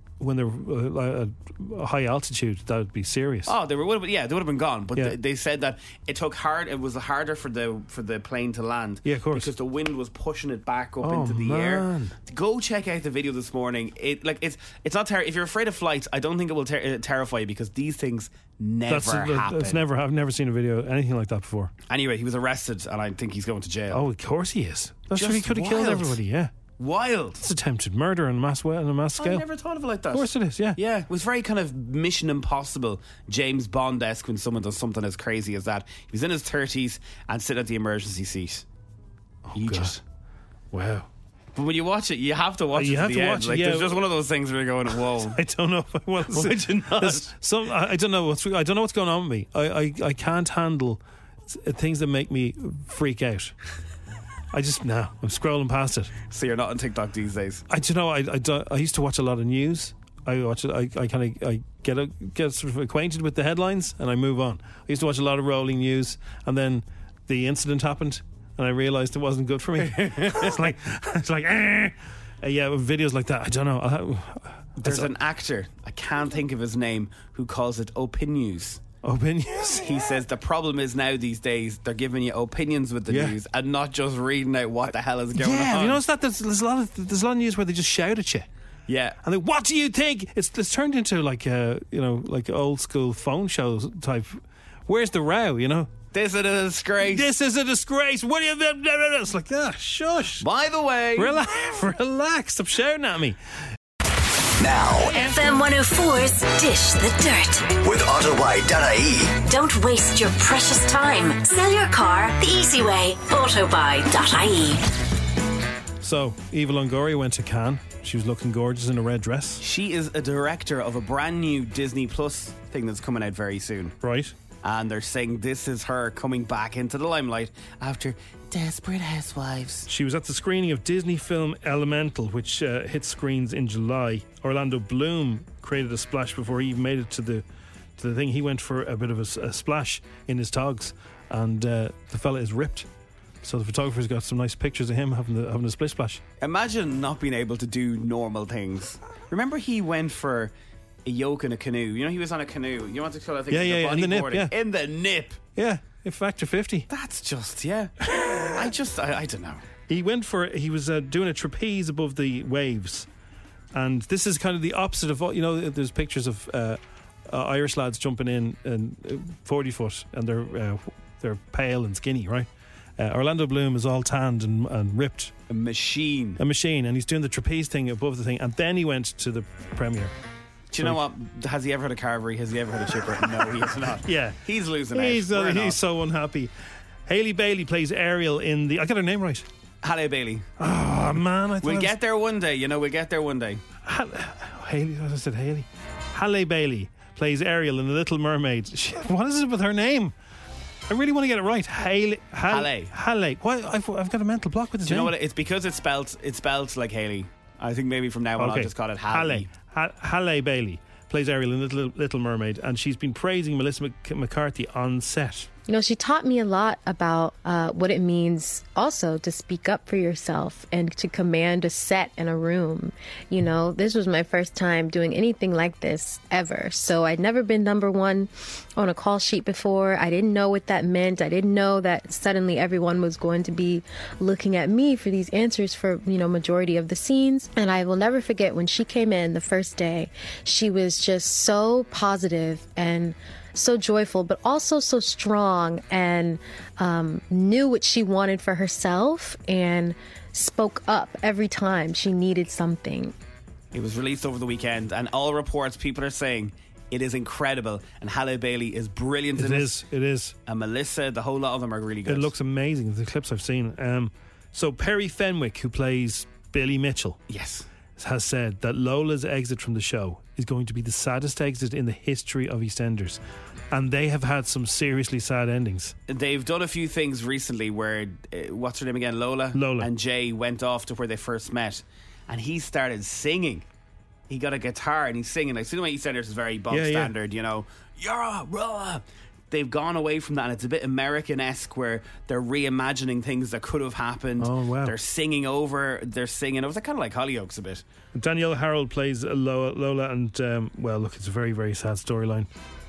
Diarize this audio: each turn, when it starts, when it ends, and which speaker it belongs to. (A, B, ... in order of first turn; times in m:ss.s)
0:00.2-0:03.5 A
0:03.4-0:19.8 B
0:09.0-0:09.5 A
0:11.0-0:12.1 A
0:18.9-0:21.7 A
0:21.9-0:24.0 B
0:23.9-0:26.5 A
0:25.1-0:26.2 B
0:26.8-0:27.4 B
0:27.4-0:29.4 A
0:29.2-0:38.6 B
0:30.1-0:30.8 A
0:39.5-0:40.0 A
0:39.5-0:40.0 B
0:40.7-0:41.1 A
0:41.6-0:45.4 B
0:42.7-0:44.0 A
0:45.3-0:53.5 A
0:46.3-0:47.3 B
0:54.5-0:56.1 A
0:56.3-0:57.6 B
0:57.7-1:15.1 A
1:09.9-1:10.5 B
1:14.8-1:18.8 B
1:19.0-1:19.9 A
1:19.8-1:26.0 B
1:23.1-1:23.4 A
1:25.4-1:28.5 A
1:28.9-1:29.2 B
1:29.2-1:35.9 A
1:36.1-1:37.3 B
1:37.0-1:40.5 A
1:40.4-1:41.4 B
1:41.1-1:43.4 A
1:44.6-1:45.2 C
1:45.1-1:47.8 D
1:47.8-1:49.4 C
1:49.4-1:54.8 D
1:56.0-1:59.6 A
1:59.6-2:03.9 B
2:04.0-2:04.3 A
2:04.6-2:09.9 B
2:09.9-2:17.4 A
2:18.0-2:22.9 A
2:23.4-2:26.2 A
2:26.4-2:30.5 B
2:31.0-2:35.4 B
2:33.5-2:34.5 A
2:35.6-2:36.9 A
2:36.9-2:39.6 B
2:39.9-2:43.1 A
2:43.7-2:55.3 A
2:55.5-2:56.4 B
2:56.4-3:00.1 A
3:00.7-3:05.8 B
3:04.0-3:04.4 A
3:04.9-3:06.5 A
3:07.0-3:09.4 A
3:09.8-3:10.5 B
3:10.6-3:12.0 A
3:11.6-3:13.6 B
3:13.8-3:20.1 A
3:20.9-3:25.1 A
3:22.5-3:22.9 B
3:24.8-3:29.5 B
3:28.4-3:35.5 A
3:35.7-4:13.1 E
4:13.7-4:19.8 B
4:19.4-4:20.4 A
4:20.5-4:22.3 B
4:22.0-4:27.2 A
4:27.3-4:27.6 B
4:28.0-4:35.9 A
4:36.1-4:43.6 B
4:39.5-4:39.9 A
4:44.3-4:57.8 B
4:46.7-4:47.1 A
4:54.4-4:55.0 A
4:58.1-5:02.5 A